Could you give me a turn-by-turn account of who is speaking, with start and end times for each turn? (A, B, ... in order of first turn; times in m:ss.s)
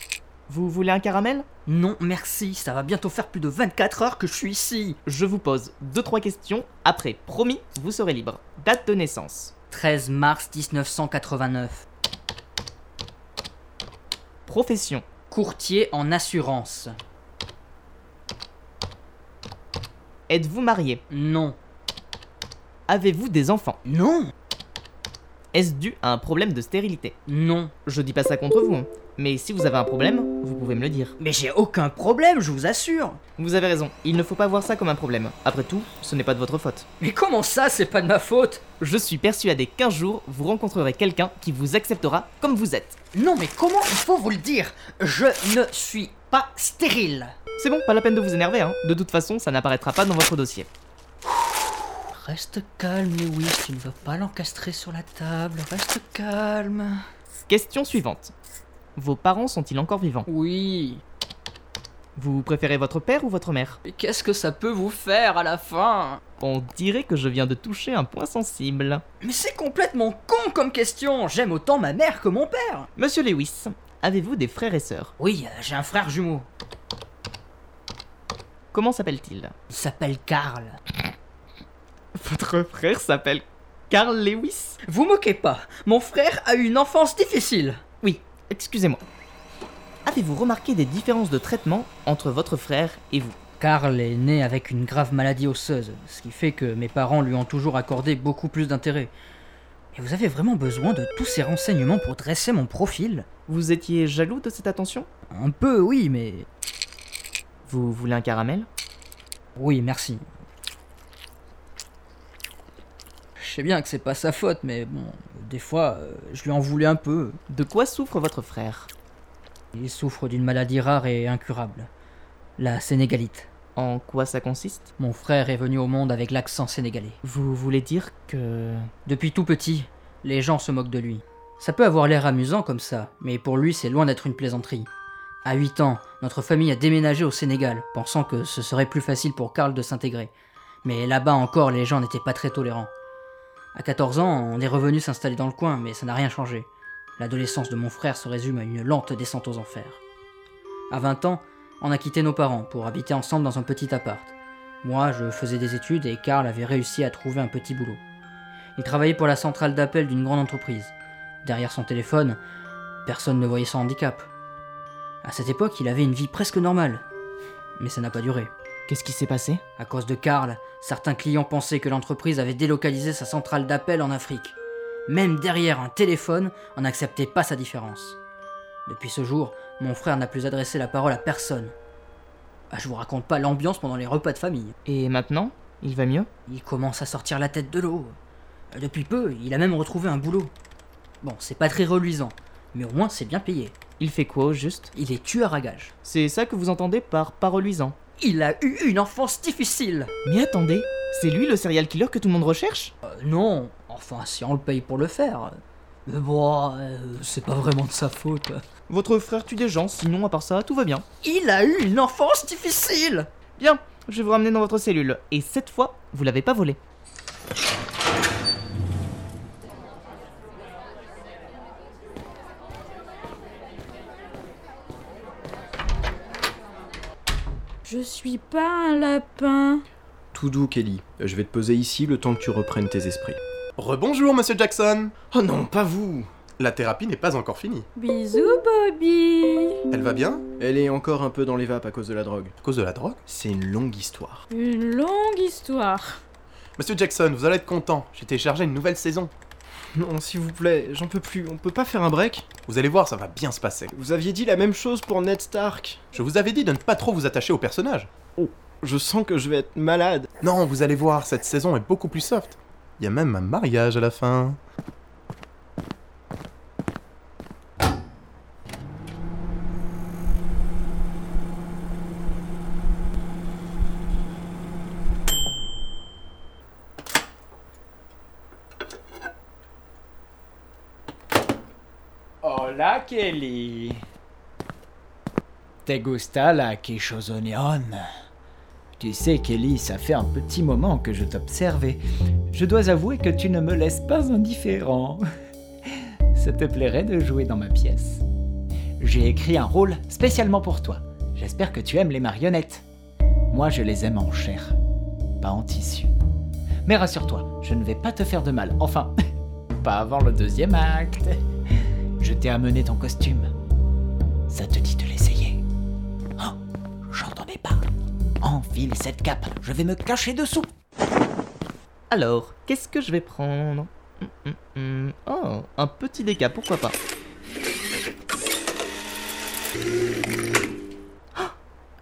0:00.5-0:01.4 A
0:01.6-0:05.0 B
0:05.0-0:09.5 A
0:09.7-0:11.8 B
0:14.4-0:15.0 A
0:15.3-0:16.9 B
0:20.3-0:21.0 A
0:21.1-0:21.6 B
0:22.9-0:23.8 A
0:23.8-0:24.3 B
0:25.5-0:27.2 A
0:27.2-0:27.7 B
0:27.8-0:31.2 A
0:31.2-0:33.2 B
0:33.4-0:36.8 A
0:37.0-0:38.6 B
0:38.8-0:43.0 A
0:43.1-0:47.4 B
0:47.6-0:50.7 A
0:52.1-0:57.0 B
0:57.5-0:58.3 A
0:59.0-1:00.3 A
1:00.2-1:01.0 B
1:02.2-1:03.8 A
1:03.8-1:06.2 B
1:06.4-1:09.0 A
1:09.2-1:12.9 B
1:13.0-1:15.1 A
1:15.2-1:16.5 B
1:18.7-1:19.5 A
1:19.7-1:20.8 B
1:22.2-1:24.8 A
1:24.8-1:27.8 B
1:28.0-1:29.0 A
1:30.0-1:33.4 A
1:33.6-1:39.1 B
1:39.9-1:43.3 B
1:43.5-1:45.1 A
1:45.3-1:46.5 B
1:47.6-1:48.7 A
1:49.6-1:50.2 B
1:53.4-1:57.4 B
1:57.5-1:58.9 A
1:59.7-2:01.9 B
2:02.6-2:03.5 B
2:03.8-2:04.9 A
2:05.0-2:07.2 B
2:07.2-2:08.9 A
2:09.0-2:14.9 B
2:15.4-2:20.3 B
2:20.8-2:22.9 B
2:23.7-2:30.0 B
2:30.9-2:38.0 B
2:38.8-2:42.4 B
2:43.0-2:44.3 B
2:45.2-2:47.0 B
2:47.8-2:48.5 B
2:48.9-2:49.6 A
2:49.8-2:54.6 B
2:55.1-2:58.2 B
2:58.8-3:01.7 B
3:02.7-3:04.7 B
3:04.8-3:06.3 A
3:06.5-3:08.2 B
3:08.7-3:10.5 B
3:11.2-3:13.8 B
3:14.0-3:14.9 A
3:14.9-3:15.9 B
3:16.0-3:17.9 A
3:18.2-3:20.1 B
3:20.2-3:22.9 A
3:23.0-3:28.6 B
3:28.9-3:31.0 A
3:31.2-3:33.3 B
3:33.6-3:36.8 A
3:47.8-3:49.8 C
3:50.3-3:53.4 D
3:53.8-3:55.1 E
3:55.3-3:56.3 D
3:56.6-3:57.9 E
3:58.0-3:59.8 C
3:59.9-4:00.5 E
4:00.6-4:02.5 D
4:02.6-4:03.2 E
4:03.2-4:04.4 D
4:04.5-4:06.2 C
4:06.8-4:09.3 E
4:09.9-4:12.5 D
4:12.7-4:13.9 E
4:13.9-4:16.0 D
4:16.1-4:18.1 E
4:18.4-4:20.3 D
4:20.4-4:24.6 E
4:42.4-4:44.0 F
4:45.8-4:48.0 F
4:49.0-4:55.2 F
4:56.3-4:58.2 F
4:59.0-5:02.8 F
5:03.5-5:04.8 F
5:05.4-5:06.1 F
5:06.8-5:09.1 F
5:09.8-5:11.4 F
5:12.2-5:13.5 F
5:14.5-5:15.6 F
5:17.1-5:17.9 F
5:18.4-5:20.7 F
5:22.1-5:27.0 A